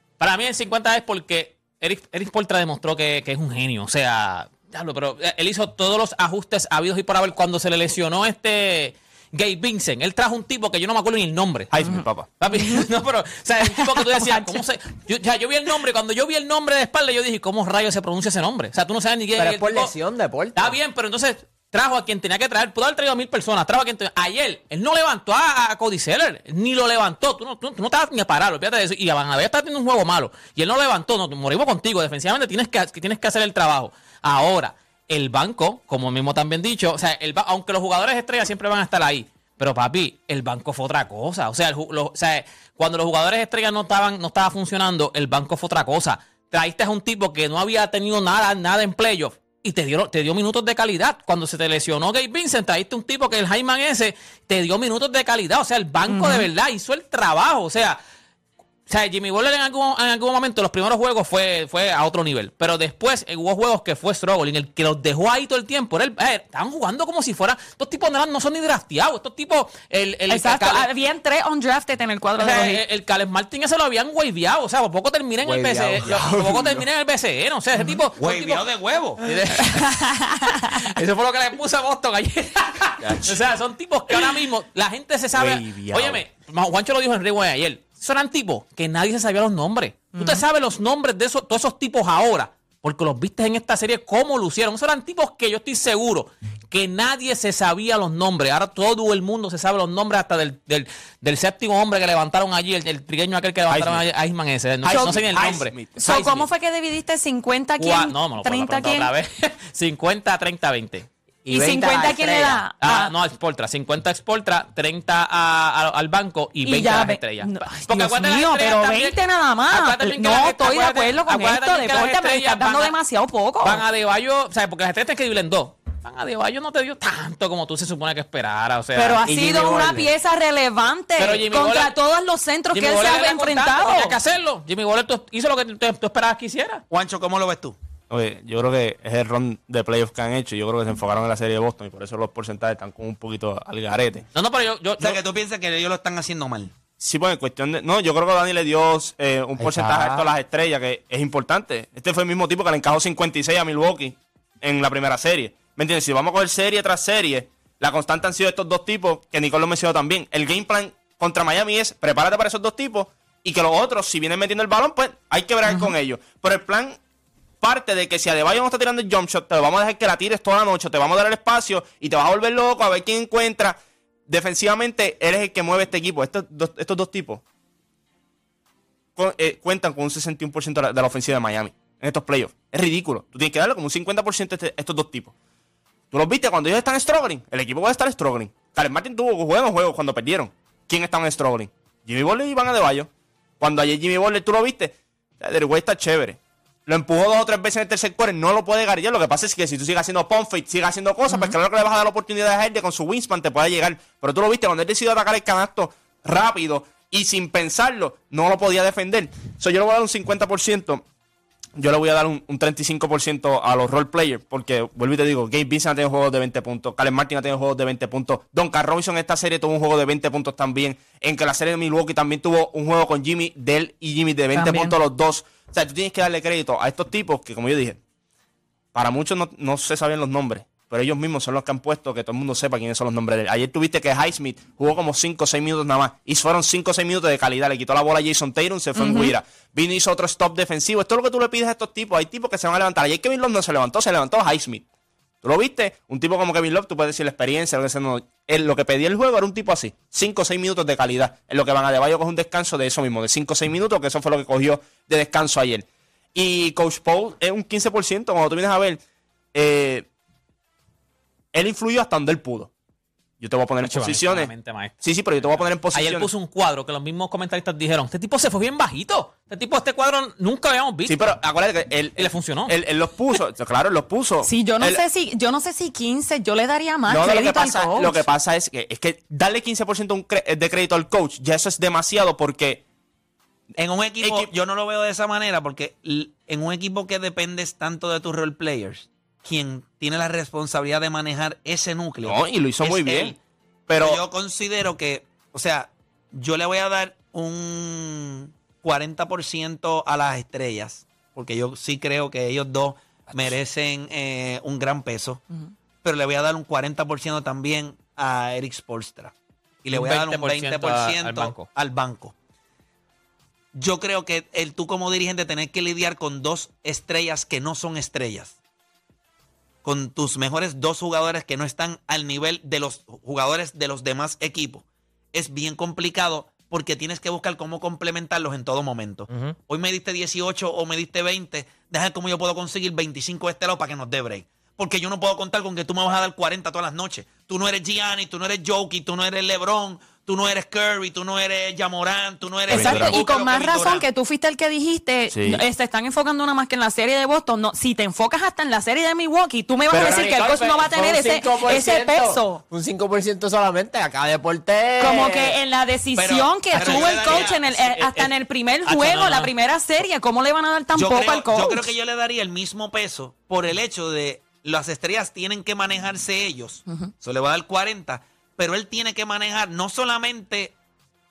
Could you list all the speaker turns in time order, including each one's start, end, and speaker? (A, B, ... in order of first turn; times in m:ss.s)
0:00.2-0:19.9 A
0:11.7-0:12.3 B
0:12.5-0:12.8 C
0:13.7-0:14.6 C
0:19.4-0:20.8 D
0:20.6-0:58.0 A
0:56.1-0:56.5 C
0:58.9-1:10.9 A
1:10.3-1:12.8 C
1:12.4-1:18.7 A
1:15.4-1:16.2 D
1:16.0-1:16.9 B
1:18.2-1:19.2 E
1:19.2-1:20.1 A
1:19.6-1:20.4 C
1:20.6-1:46.5 A
1:25.3-1:26.2 B
1:30.1-1:30.4 C
1:43.7-1:44.0 B
1:44.8-1:46.3 B
1:44.9-1:49.1 C
1:47.8-1:51.1 A
1:51.5-1:52.6 D
1:51.5-1:53.1 C
1:52.4-2:03.0 A
1:56.6-2:03.8 C
2:03.6-2:09.4 A
2:08.9-2:14.2 C
2:09.3-2:10.1 D
2:11.2-2:12.0 A
2:12.7-2:16.8 A
2:16.9-2:17.8 E
2:18.1-2:24.2 B
2:24.3-2:25.2 A
2:25.0-2:26.7 E
2:27.0-2:47.0 B
2:29.6-2:30.3 D
2:47.6-2:57.4 B
2:59.2-3:05.3 B
3:06.1-3:13.1 B
3:13.6-3:31.0 B
3:31.8-3:48.0 B
3:44.5-3:45.0 C
3:48.9-4:04.8 B
3:59.0-3:59.4 C
4:05.4-4:19.0 B
4:19.5-4:20.1 B
4:21.5-4:22.7 B
4:23.4-4:26.3 B
4:23.8-4:31.3 A
4:31.1-4:35.0 B
4:32.2-4:32.8 A
4:34.4-4:38.3 C
4:37.1-4:42.8 B
4:43.8-4:53.4 E
4:44.2-4:44.5 B
4:52.2-4:53.4 B
4:53.9-4:54.2 B
4:54.0-5:05.4 E
5:06.0-5:09.3 E
5:09.8-5:12.3 E
5:09.9-5:11.7 A
5:13.7-5:18.6 E
5:19.8-5:44.0 E
5:29.3-5:29.6 D
5:42.7-5:43.2 B
5:42.7-5:52.6 C
5:45.3-5:45.6 B
5:49.9-5:55.6 D
5:55.0-6:01.9 C
5:56.2-5:57.8 E
5:56.8-5:58.3 A
5:58.8-5:59.5 A
6:00.9-6:10.7 E